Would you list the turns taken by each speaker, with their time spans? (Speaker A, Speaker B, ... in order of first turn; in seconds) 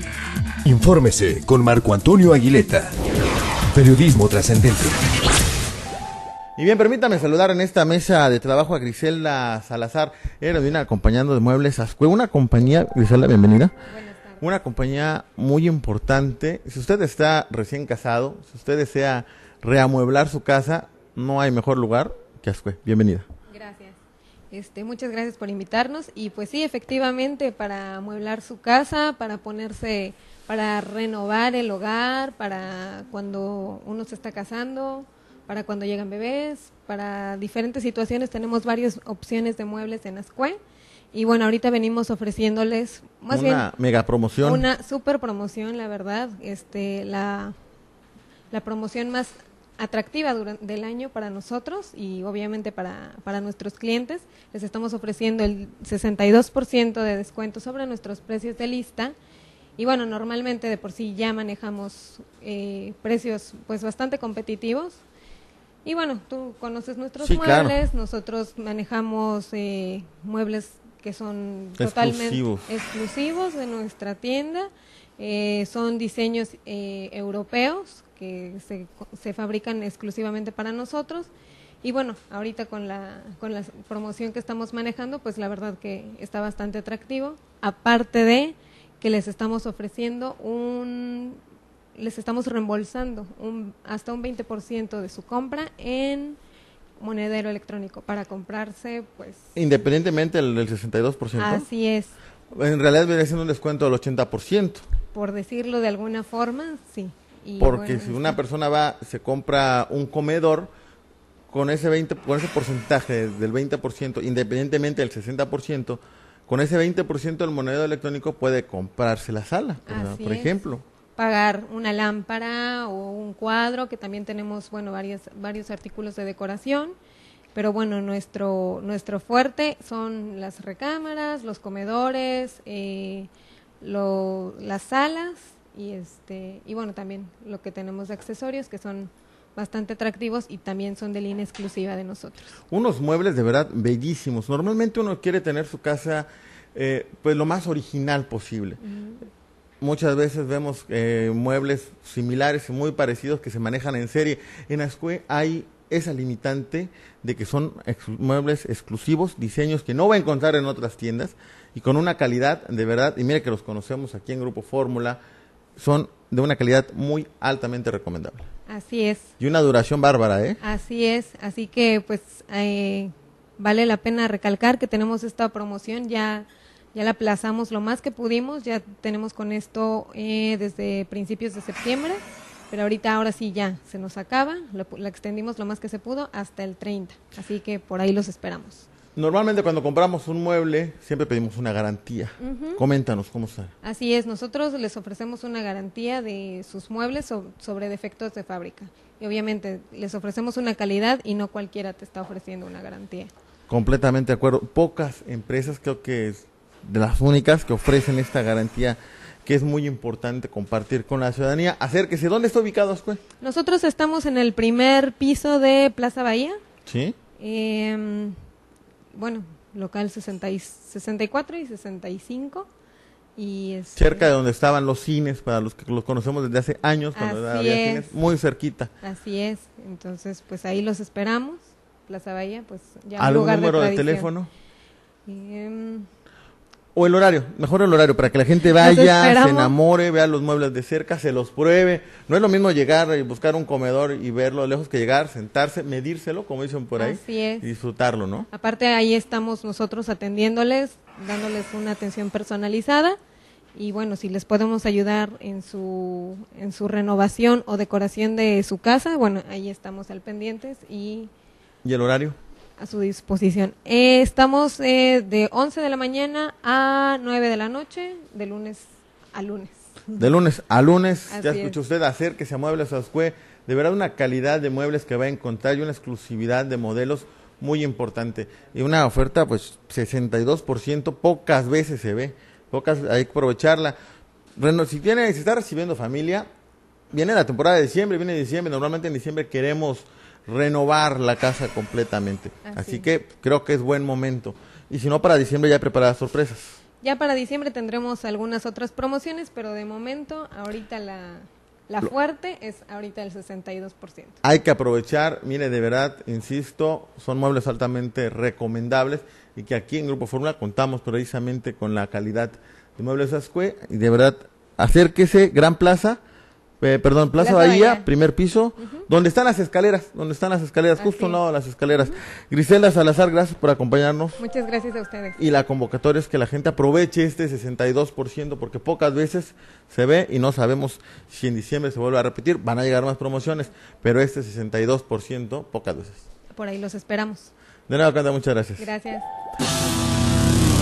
Speaker A: 0.6-2.9, 3.7-5.0
Speaker B: 6.6-13.7, 14.4-23.2, 43.3-44.7, 67.2-67.8, 71.8-72.7, 99.5-101.7, 102.5-104.8, 107.6-110.7, 111.5-120.8, 142.7-148.8, 149.8-165.2, 165.8-168.4, 169.4-170.6, 189.2-193.7, 203.7-213.2, 216.8-217.2, 223.9-228.9, 233.2-234.5, 236.9-248.5, 261.8-262.4, 270.1-283.9, 284.6-286.5, 287.1-296.8, 304.4-316.2, 316.8-324.4, 325.4-336.2, 337.9-338.9
Speaker C: 13.8-14.4, 23.5-24.0, 24.5-40.6, 41.1-43.6, 44.4-47.5, 48.5-59.1, 59.8-65.0, 65.8-81.3, 81.8-91.4, 92.0-96.4, 97.0-99.5, 101.3-102.2, 105.1-108.4, 119.8-120.6, 121.2-126.9, 127.5-133.3, 133.8-142.6, 148.8-149.2, 168.7-169.3, 170.6-188.9, 192.4-192.8, 193.8-203.3, 213.4-216.6, 217.4-218.4, 219.1-222.7, 223.3-224.3, 227.1-228.1, 229.0-234.3, 235.2-236.1, 238.7-239.7, 247.0-247.7, 248.5-253.2, 253.7-261.3, 262.8-270.0, 271.3-271.8, 292.6-293.1, 297.0-304.4, 317.4-318.1, 318.8-319.1, 321.0-321.4, 324.4-325.4, 336.5-337.5, 338.8-339.3